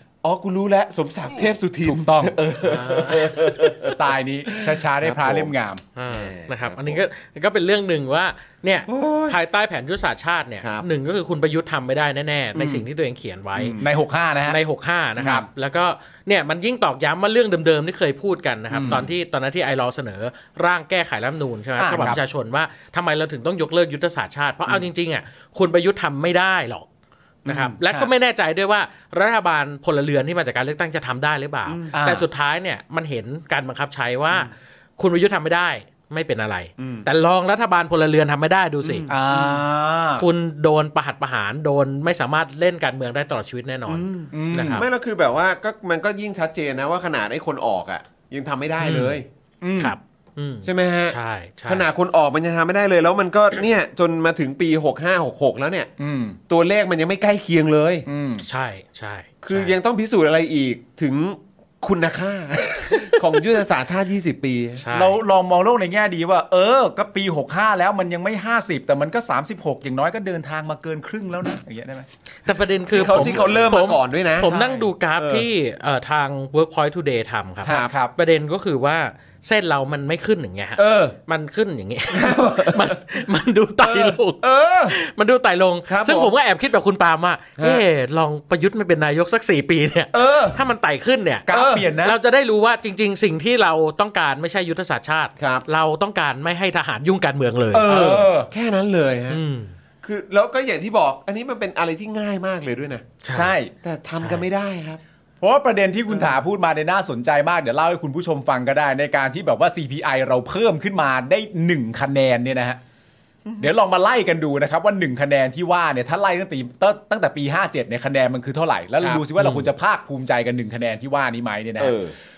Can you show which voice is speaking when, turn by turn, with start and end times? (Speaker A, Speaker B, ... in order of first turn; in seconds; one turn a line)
Speaker A: 0.2-5.5
Speaker B: 1.8-2.4
Speaker C: 2.6-3.4
Speaker B: 3.8-5.8
Speaker C: 6.0-13.8
Speaker A: 6.1-7.0
Speaker A: 8.9-9.4
Speaker B: 12.5-12.8
Speaker A: 13.6-13.8
Speaker B: 13.8-14.6
Speaker C: 14.5-26.9
Speaker B: 15.2-15.5
Speaker B: 18.7-19.1
Speaker B: 21.8-22.2
Speaker C: 27.4-39.5
Speaker B: 27.5-28.1
Speaker A: 31.6-31.9
Speaker B: 31.9-32.3
Speaker A: 36.8-37.1
Speaker A: 38.8-39.2
Speaker B: 39.1-40.2
Speaker C: 40.2-44.8
Speaker A: 43.9-49.2
Speaker B: 44.3-44.9
Speaker C: 48.8-49.2
Speaker B: 49.6-49.9
Speaker C: 49.8-51.9
Speaker A: 50.6-55.9
Speaker B: 56.0-56.4
Speaker A: 56.5-58.0
Speaker B: 58.1-58.4
Speaker C: 58.4-59.7
Speaker A: 59.4-64.8
Speaker C: 64.8-65.2
Speaker B: 64.9-72.1
Speaker C: 72.5-97.9
Speaker A: 72.9-74.5
Speaker B: 73.0-73.7
Speaker B: 74.4-74.9
Speaker A: 75.2-75.5
Speaker A: 77.6-77.9
Speaker B: 77.6-78.1
Speaker A: 80.8-81.2
Speaker A: 82.1-82.9
Speaker A: 83.8-85.0
Speaker A: 85.9-86.3
Speaker A: 87.6-87.8
Speaker A: 90.1-90.6
Speaker B: 91.5-92.2
Speaker A: 91.5-91.8
Speaker A: 95.4-95.6
Speaker B: 97.7-98.5
Speaker A: 97.8-99.4
Speaker C: 99.3-99.7
Speaker A: 100.0-103.1
Speaker C: 103.2-103.5
Speaker B: 103.3-103.7
Speaker A: 103.8-105.0
Speaker C: 104.2-104.4
Speaker B: 105.4-112.8
Speaker B: 113.6-122.0
Speaker C: 119.4-119.7
Speaker A: 121.8-122.1